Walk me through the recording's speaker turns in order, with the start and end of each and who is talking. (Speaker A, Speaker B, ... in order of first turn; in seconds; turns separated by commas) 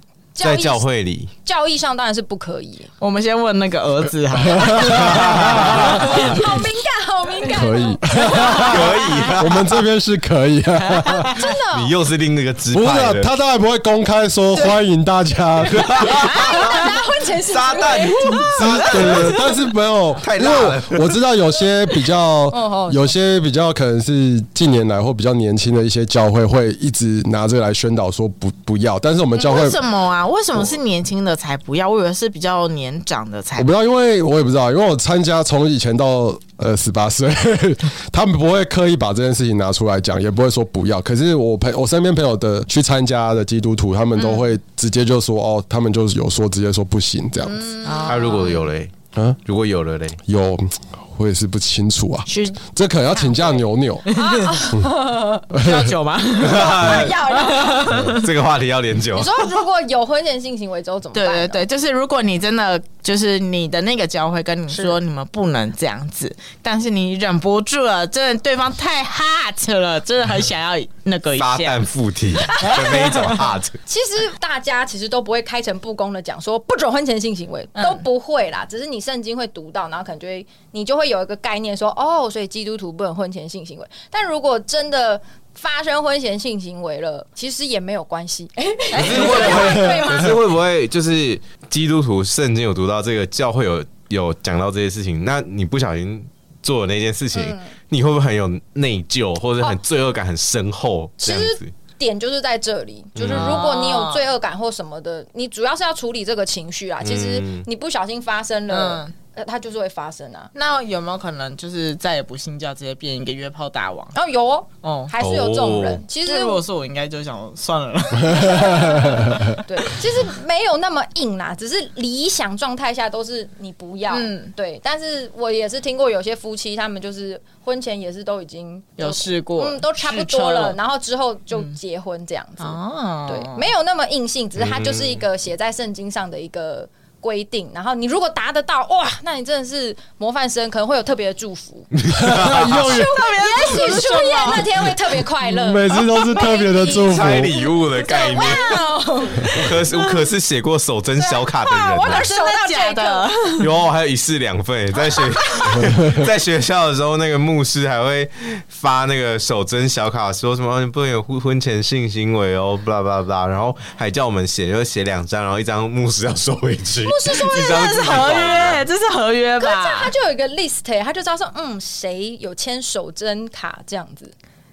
Speaker A: 0.4-0.8, Speaker B: 0.4-1.3, Speaker A: 1.4-2.9, Speaker C: 3.0-6.4, Speaker D: 4.5-6.4, Speaker B: 5.0-6.4, Speaker A: 6.0-9.0, Speaker D: 7.5-11.3, Speaker B: 8.3-9.8, Speaker C: 10.9-11.3, Speaker A: 11.3-11.9, Speaker B: 11.3-13.3, Speaker D: 12.7-16.2, Speaker B: 15.7-19.4, Speaker A: 16.0-19.1, Speaker C: 16.3-16.8, Speaker C: 18.1-19.3, Speaker D: 18.5-29.8, Speaker B: 20.2-21.2, Speaker A: 22.5-23.1, Speaker C: 29.4-33.7, Speaker D: 33.6-47.6, Speaker C: 44.2-44.5, Speaker A: 47.5-48.5, Speaker C: 47.8-48.7, Speaker B: 48.0-48.9, Speaker B: 49.5-50.2, Speaker D: 50.3-54.1, Speaker C: 52.3-52.6, Speaker C: 53.1-54.6, Speaker A: 54.1-55.6, Speaker D: 55.5-55.9, Speaker C: 55.5-58.2, Speaker B: 56.4-57.2, Speaker A: 56.4-58.1, Speaker B: 57.9-59.5, Speaker A: 59.1-61.6, Speaker C: 61.1-71.9, Speaker B: 71.4-73.8, Speaker A: 72.5-73.1, Speaker C: 72.7-73.4, Speaker A: 73.9-90.5, Speaker C: 88.9-90.0, Speaker B: 89.0-101.7, Speaker A: 97.3-97.7, Speaker A: 101.2-110.5, Speaker B: 103.2-103.6, Speaker C: 103.2-104.3, Speaker B: 107.0-107.7, Speaker C: 108.7-109.1, Speaker C: 110.5-114.1, Speaker A: 114.1-116.6, Speaker C: 114.8-115.1, Speaker B: 115.2-116.0, Speaker C: 116.2-119.5, Speaker A: 118.3-141.9, Speaker C: 124.1-124.5, Speaker C: 129.0-130.8, Speaker C: 132.6-133.7, Speaker B: 134.6-135.2, Speaker B: 141.9-143.0, Speaker D: 142.1-143.1, Speaker A: 142.4-149.7, Speaker C: 142.7-144.7, Speaker D: 145.4-147.7, Speaker B: 147.0-148.8, Speaker B: 149.4-152.3, Speaker A: 151.2-153.3, Speaker C: 152.0-153.7, Speaker B: 153.6-168.8, Speaker A: 155.0-155.8, Speaker A: 167.1-168.7, Speaker C: 167.4-170.1, Speaker A: 169.6-174.3